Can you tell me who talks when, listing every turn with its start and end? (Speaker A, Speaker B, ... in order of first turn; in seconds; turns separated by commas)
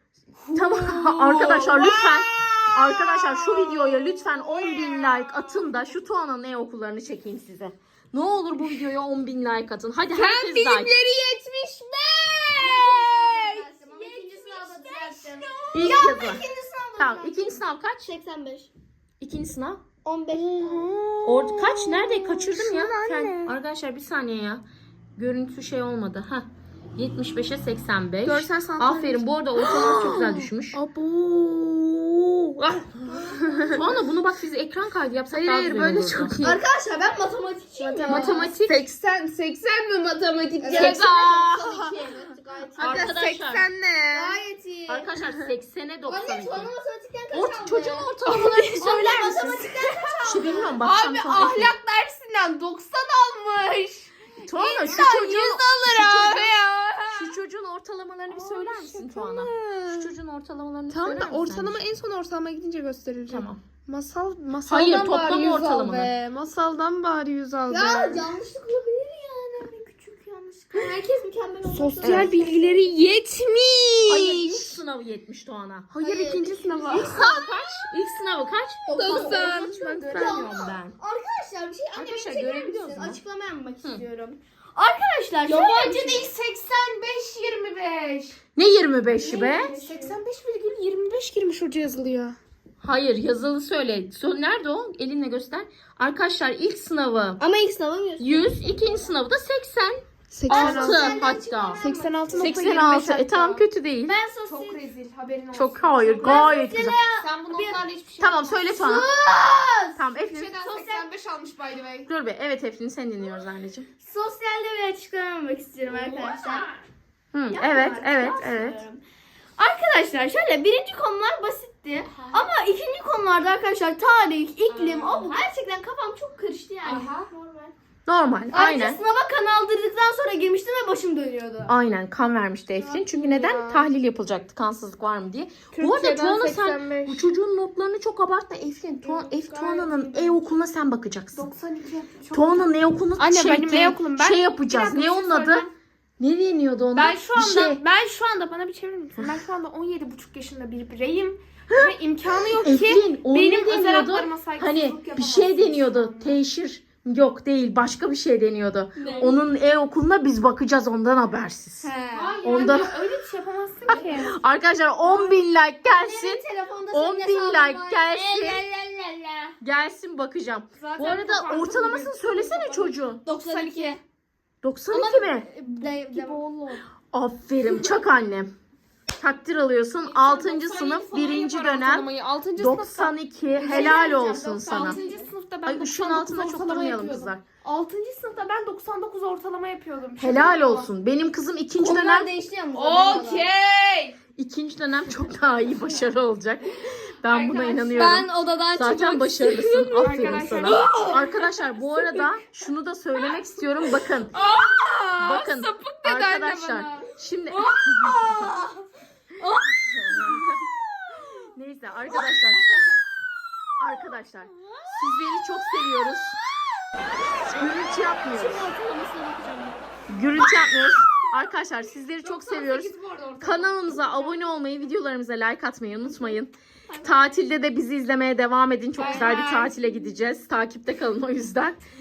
Speaker A: 0.4-5.9, Speaker B: 0.5-10.9, Speaker A: 10.1-16.4, Speaker C: 12.5-18.7, Speaker B: 15.7-16.4, Speaker B: 17.0-18.1, Speaker B: 19.2-19.8, Speaker C: 20.0-20.9, Speaker A: 20.3-23.5, Speaker B: 21.2-30.8, Speaker A: 28.2-33.8, Speaker B: 33.0-36.4, Speaker A: 35.3-36.6, Speaker C: 36.4-38.5, Speaker A: 37.7-44.4, Speaker B: 38.0-38.9, Speaker C: 40.6-43.0, Speaker B: 40.7-41.8, Speaker B: 42.8-43.6, Speaker C: 44.1-45.1, Speaker B: 44.9-46.7, Speaker C: 46.0-50.8, Speaker B: 47.3-49.6, Speaker A: 48.4-48.7, Speaker A: 49.5-57.4, Speaker B: 50.2-51.7, Speaker B: 54.4-56.5, Speaker B: 57.1-61.8, Speaker A: 58.3-60.1, Speaker A: 60.9-68.3, Speaker B: 63.3-63.6, Speaker B: 64.6-66.1, Speaker C: 65.0-66.1, Speaker C: 67.7-72.8, Speaker A: 70.7-71.0, Speaker A: 71.7-74.8, Speaker B: 72.0-72.3, Speaker B: 74.1-76.1, Speaker A: 76.0-77.2, Speaker C: 76.0-77.3, Speaker B: 76.9-81.0, Speaker C: 78.9-86.3, Speaker A: 78.9-80.4, Speaker B: 81.9-83.2, Speaker A: 85.4-88.4, Speaker B: 88.5-89.7, Speaker A: 89.1-92.4, Speaker C: 89.3-90.2, Speaker B: 92.8-97.4, Speaker C: 97.4-98.5, Speaker B: 98.2-101.8, Speaker A: 100.3-101.2, Speaker C: 100.5-102.6, Speaker A: 101.8-103.6, Speaker B: 102.4-104.1, Speaker C: 104.1-104.9, Speaker A: 104.4-108.8, Speaker B: 105.5-107.0, Speaker C: 106.2-107.8, Speaker B: 108.2-109.1, Speaker C: 108.7-110.0, Speaker B: 110.0-110.5, Speaker A: 110.2-112.1, Speaker C: 110.6-111.1, Speaker B: 112.1-113.9, Speaker C: 114.0-116.7, Speaker A: 115.8-116.8, Speaker B: 117.3-118.8, Speaker C: 117.5-119.0, Speaker C: 119.6-127.7, Speaker A: 122.1-122.5, Speaker A: 124.7-125.4, Speaker A: 126.8-127.3, Speaker B: 128.1-129.0, Speaker C: 128.5-131.7, Speaker B: 131.7-141.4, Speaker A: 132.8-133.9, Speaker A: 135.7-137.3, Speaker A: 139.0-140.5, Speaker A: 141.3-145.7, Speaker B: 142.3-145.7, Speaker B: 146.2-147.8, Speaker A: 146.9-156.4, Speaker B: 152.5-161.9, Speaker C: 159.0-159.3, Speaker C: 161.8-162.4, Speaker A: 162.1-164.4, Speaker B: 162.4-162.9, Speaker C: 163.9-164.3, Speaker B: 163.9-168.6, Speaker C: 165.1-169.6, Speaker B: 169.6-173.2, Speaker A: 170.8-174.0, Speaker C: 173.2-174.0, Speaker B: 174.6-175.5, Speaker C: 174.9-176.8, Speaker A: 175.6-176.8, Speaker B: 177.1-178.5, Speaker A: 177.6-178.0, Speaker B: 179.2-185.0, Speaker A: 180.0-190.9, Speaker C: 183.6-185.3, Speaker B: 185.6-187.4, Speaker B: 190.2-192.3, Speaker C: 191.8-193.5, Speaker A: 192.7-194.2, Speaker B: 194.3-204.3, Speaker A: 197.2-198.2, Speaker C: 197.9-199.9, Speaker A: 199.9-201.4, Speaker C: 200.6-201.3, Speaker C: 202.0-202.3, Speaker A: 204.3-207.7, Speaker B: 205.2-208.5, Speaker C: 208.0-208.8, Speaker C: 209.4-209.8, Speaker B: 209.8-210.5, Speaker B: 211.5-212.7, Speaker B: 213.8-216.4, Speaker B: 217.2-218.7, Speaker C: 218.3-219.8, Speaker B: 220.1-231.8, Speaker A: 222.2-224.5, Speaker C: 226.9-227.2, Speaker A: 228.9-230.1